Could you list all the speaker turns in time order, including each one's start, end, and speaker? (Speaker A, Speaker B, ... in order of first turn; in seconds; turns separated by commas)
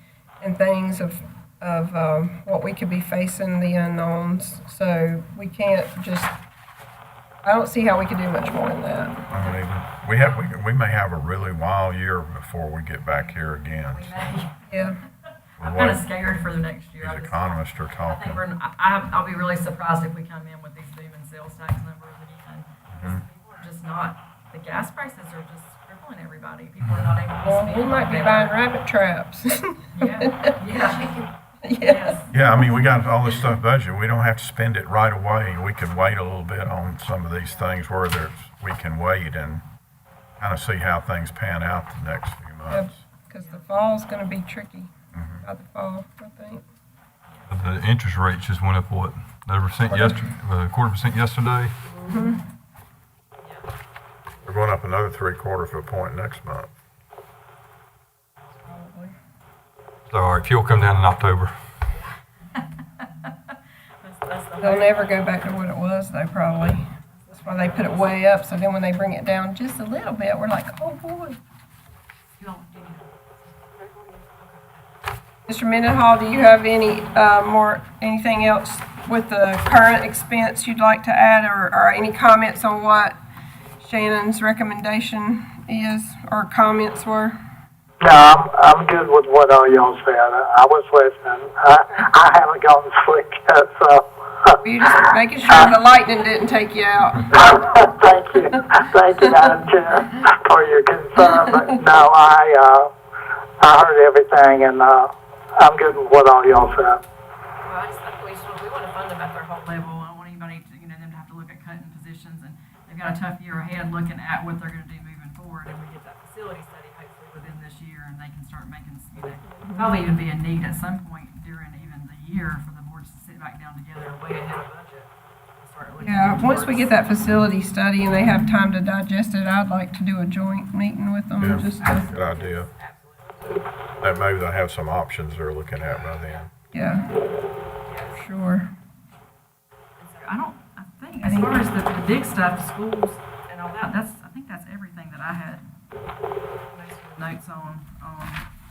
Speaker A: 0.4-6.3, Speaker A: 7.4-9.2, Speaker B: 9.3-14.1, Speaker C: 9.3-9.6, Speaker C: 13.9-14.8, Speaker A: 14.7-15.0, Speaker B: 15.6-16.0, Speaker C: 15.6-28.5, Speaker B: 17.0-18.4, Speaker B: 22.9-23.2, Speaker A: 27.4-30.5, Speaker C: 29.9-31.3, Speaker A: 31.6-32.1, Speaker C: 31.8-32.3, Speaker B: 32.3-39.6, Speaker B: 40.4-42.9, Speaker A: 42.7-46.6, Speaker B: 45.1-45.4, Speaker D: 47.5-51.7, Speaker A: 49.9-50.2, Speaker C: 51.9-52.4, Speaker A: 52.1-52.4, Speaker B: 54.4-56.7, Speaker A: 58.6-59.1, Speaker D: 60.1-61.5, Speaker C: 62.6-63.3, Speaker C: 64.0-65.1, Speaker A: 64.6-71.4, Speaker C: 67.3-68.0, Speaker C: 72.4-74.9, Speaker A: 75.5-83.2, Speaker A: 83.8-87.3, Speaker E: 88.0-94.6, Speaker A: 94.6-98.4, Speaker E: 95.5-95.7, Speaker E: 97.3-102.9, Speaker A: 101.2-101.7, Speaker E: 103.6-107.0, Speaker C: 107.6-126.9, Speaker A: 119.6-119.9, Speaker A: 126.0-132.1, Speaker B: 131.4-132.7, Speaker C: 131.8-133.6, Speaker B: 134.0-136.5, Speaker A: 136.7-137.1, Speaker C: 137.8-138.2, Speaker A: 138.1-138.7, Speaker C: 140.0-145.7, Speaker A: 141.2-141.5, Speaker C: 146.7-148.4